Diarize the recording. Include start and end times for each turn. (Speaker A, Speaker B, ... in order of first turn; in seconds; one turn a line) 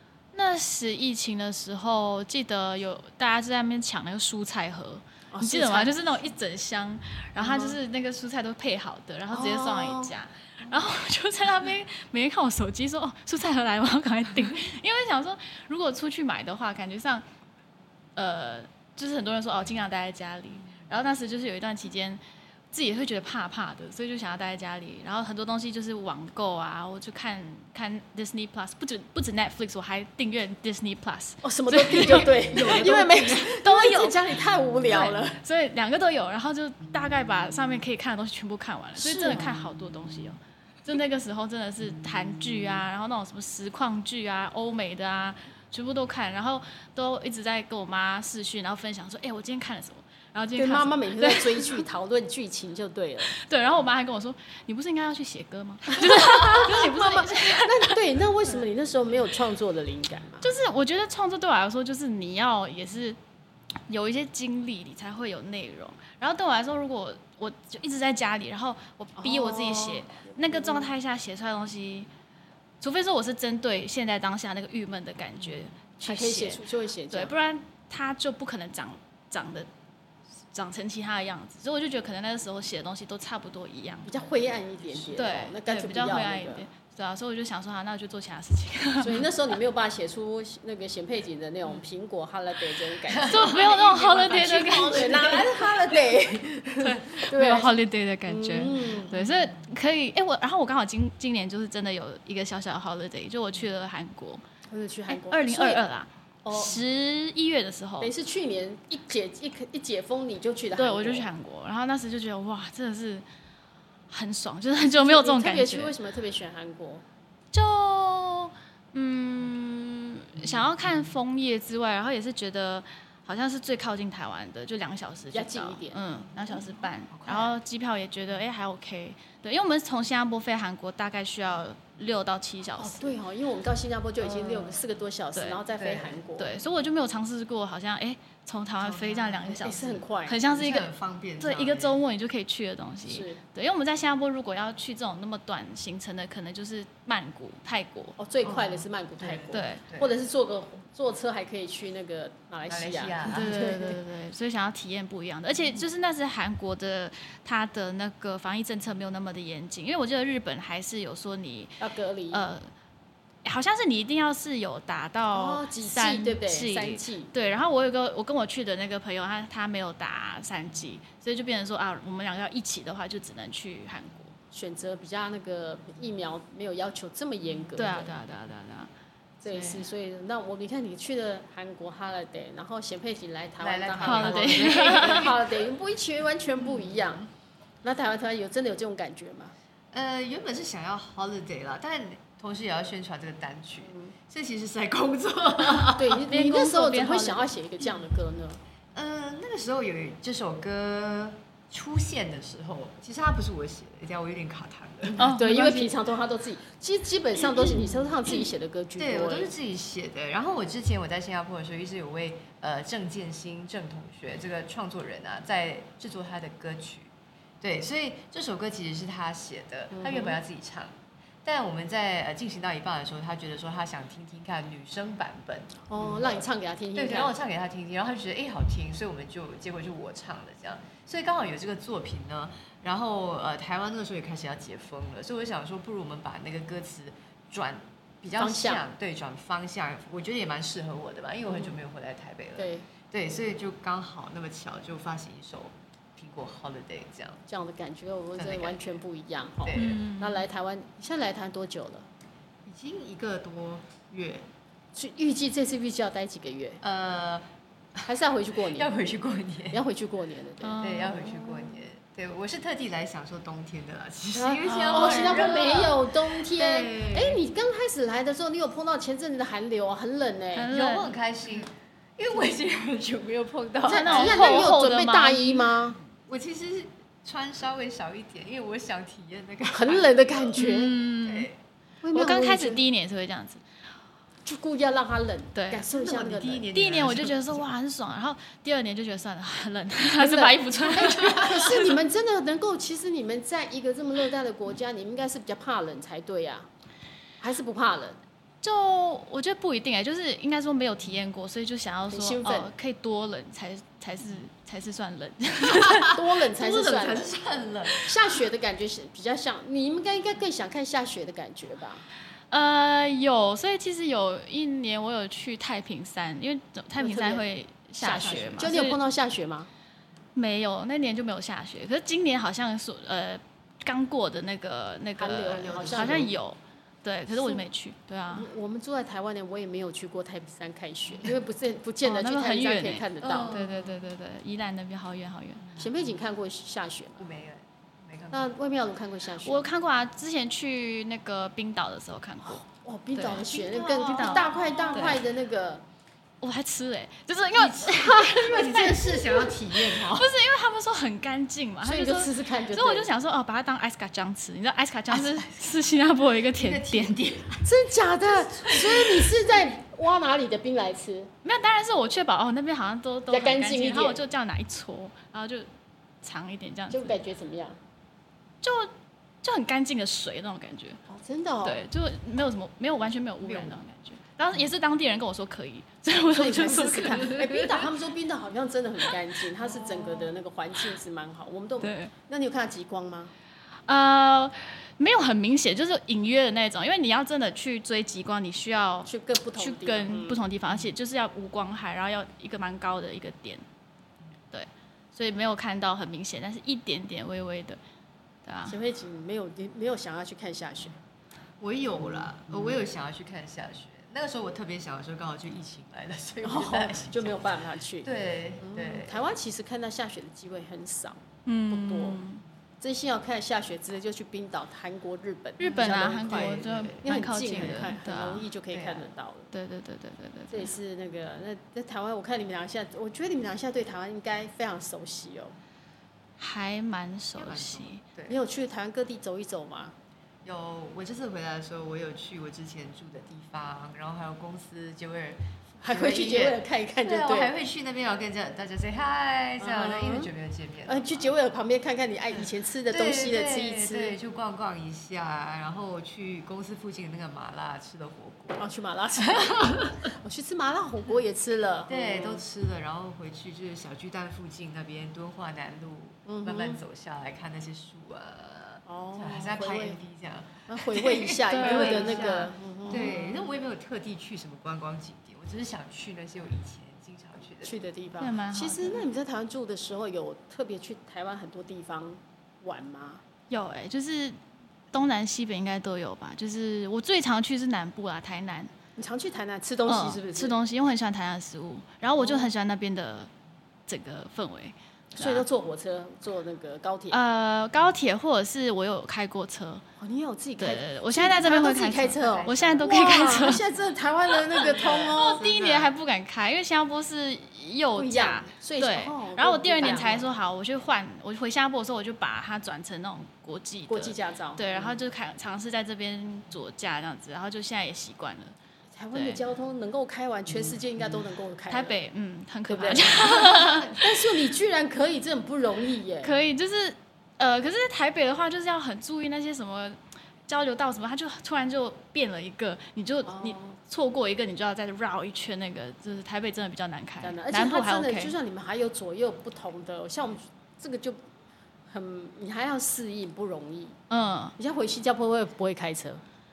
Speaker A: 0.3-17.2
Speaker B: 5.3-6.2
Speaker B: 7.4-7.8
Speaker B: 9.3-10.2
Speaker A: 18.2-51.8
Speaker B: 31.4-35.4
Speaker C: 32.6-33.1
Speaker B: 39.0-39.5
Speaker C: 39.1-39.5
Speaker B: 50.6-53.3
Speaker A: 53.3-58.0
Speaker B: 55.9-60.5
Speaker A: 60.4-63.2
Speaker A: 63.9-72.1
Speaker B: 69.2-70.9
Speaker A: 72.8-79.7
Speaker B: 76.0-77.3
Speaker A: 80.5-84.1
Speaker B: 84.0-86.6
Speaker A: 85.2-89.3
Speaker B: 89.0-93.6
Speaker C: 93.1-96.4
Speaker A: 93.3-95.4
Speaker B: 94.6-99.2
Speaker A: 96.8-104.4
Speaker B: 104.7-105.8
Speaker A: 105.1-108.1
Speaker B: 106.5-106.8
Speaker B: 108.0-111.3
Speaker A: 110.8-113.2
Speaker A: 114.1-115.9
Speaker B: 114.8-117.0
Speaker A: 117.5-133.2
Speaker B: 125.3-126.0
Speaker C: 127.1-127.5
Speaker B: 132.8-136.5
Speaker A: 134.2-134.7
Speaker A: 135.3-135.6
Speaker C: 135.7-136.2
Speaker A: 136.4-148.2
Speaker C: 138.8-139.9
Speaker B: 139.5-140.4
Speaker C: 140.5-142.0
Speaker B: 143.1-143.4
Speaker B: 148.2-154.0
Speaker C: 148.4-150.1
Speaker A: 149.5-149.8
Speaker C: 152.7-153.5
Speaker A: 153.3-161.8
Speaker B: 161.8-162.4
Speaker A: 162.3-162.7
Speaker A: 163.4-174.3
Speaker B: 165.3-167.3
Speaker B: 174.5-178.1
Speaker A: 177.8-178.9
Speaker B: 179.4-187.3
Speaker A: 179.5-179.8
Speaker C: 183.6-185.5
Speaker A: 184.0-185.4
Speaker B: 187.8-189.5
Speaker C: 189.9-196.2
Speaker B: 193.8-194.1
Speaker B: 195.9-198.6
Speaker A: 196.2-197.5
Speaker C: 198.9-205.2
Speaker B: 205.2-209.5
Speaker A: 205.2-205.9
Speaker C: 207.5-220.9
Speaker B: 219.9-220.4
Speaker C: 221.4-247.4
Speaker B: 225.9-227.3
Speaker B: 238.4-238.8
Speaker B: 242.6-242.8
Speaker B: 247.5-252.1
Speaker C: 248.4-248.8
Speaker C: 249.7-250.0
Speaker A: 249.8-250.4
Speaker C: 252.7-254.5
Speaker B: 254.9-256.8
Speaker C: 256.8-257.4
Speaker B: 258.1-258.9
Speaker C: 258.7-259.8
Speaker B: 259.7-260.8
Speaker A: 260.6-261.7
Speaker C: 260.8-267.4
Speaker B: 264.3-270.7
Speaker A: 264.6-265.8
Speaker A: 270.5-271.2
Speaker C: 270.7-274.7
Speaker B: 273.9-276.0
Speaker A: 273.9-275.8
Speaker C: 276.3-280.7
Speaker B: 279.7-281.0
Speaker A: 280.6-281.5
Speaker C: 281.2-281.6
Speaker B: 282.0-282.8
Speaker A: 282.1-283.6
Speaker B: 284.4-286.7
Speaker A: 285.6-285.9
Speaker C: 285.9-287.7
Speaker A: 286.7-292.0
Speaker B: 290.2-296.7
Speaker C: 291.0-291.6
Speaker B: 297.4-298.2
Speaker A: 298.6-306.2
Speaker B: 302.1-302.7
Speaker C: 305.6-308.1
Speaker B: 306.1-307.3
Speaker B: 307.9-312.1
Speaker A: 312.5-319.0
Speaker B: 317.0-317.4
Speaker C: 318.0-318.7
Speaker B: 318.0-319.7
Speaker A: 320.4-328.5
Speaker B: 325.2-326.3
Speaker C: 325.6-326.3
Speaker B: 327.3-327.6
Speaker B: 328.3-333.6
Speaker A: 332.0-335.7
Speaker C: 333.2-334.0
Speaker B: 335.8-337.2
Speaker C: 337.2-338.6
Speaker B: 338.3-339.7
Speaker A: 339.4-342.6
Speaker B: 342.5-345.8
Speaker A: 343.1-345.2
Speaker A: 346.4-357.2
Speaker C: 347.6-350.3
Speaker B: 351.8-353.1
Speaker C: 355.1-355.6
Speaker C: 356.5-357.7
Speaker B: 357.6-361.3
Speaker C: 358.3-359.4
Speaker A: 361.4-365.7
Speaker B: 363.3-364.2
Speaker A: 366.2-367.2
Speaker B: 366.9-367.8
Speaker A: 368.6-368.9
Speaker A: 369.4-371.0
Speaker B: 371.1-371.8
Speaker A: 371.6-377.8
Speaker C: 373.4-373.7
Speaker B: 376.3-383.3
Speaker C: 379.9-380.2
Speaker A: 381.8-382.1
Speaker A: 383.9-393.6
Speaker B: 389.1-390.4
Speaker A: 394.5-397.8
Speaker A: 398.4-398.8
Speaker B: 398.7-401.0
Speaker C: 401.6-409.2
Speaker B: 406.4-408.1
Speaker B: 408.6-412.2
Speaker A: 411.5-412.4
Speaker B: 412.8-419.5
Speaker A: 415.6-418.5
Speaker C: 415.6-417.9
Speaker C: 418.7-419.1
Speaker A: 419.5-420.7
Speaker B: 420.5-425.6
Speaker A: 426.4-428.0
Speaker C: 427.4-428.4
Speaker B: 428.3-429.9
Speaker C: 430.4-441.3
Speaker B: 435.8-437.5
Speaker B: 439.6-440.3
Speaker B: 440.9-444.2
Speaker C: 442.3-448.6
Speaker B: 448.6-452.4
Speaker C: 449.2-450.0
Speaker C: 451.9-467.8
Speaker B: 456.3-456.8
Speaker B: 458.9-460.0
Speaker B: 460.7-463.2
Speaker A: 461.5-463.4
Speaker B: 467.6-473.2
Speaker A: 468.2-469.0
Speaker A: 473.5-474.4
Speaker A: 474.9-478.7
Speaker B: 479.0-480.6
Speaker A: 479.9-483.3
Speaker B: 482.2-482.5
Speaker A: 483.9-485.5
Speaker B: 485.1-487.2
Speaker A: 487.1-489.8
Speaker B: 490.0-495.4
Speaker A: 490.6-493.6
Speaker C: 492.2-493.6
Speaker C: 494.6-495.9
Speaker A: 494.6-508.6
Speaker B: 498.0-500.3
Speaker B: 503.9-505.0
Speaker B: 508.9-511.9
Speaker A: 509.1-509.4
Speaker A: 511.7-514.0
Speaker B: 512.7-516.4
Speaker A: 516.2-528.4
Speaker B: 523.3-523.8
Speaker B: 527.2-531.2
Speaker B: 531.9-534.0
Speaker A: 534.1-534.5
Speaker B: 534.6-536.2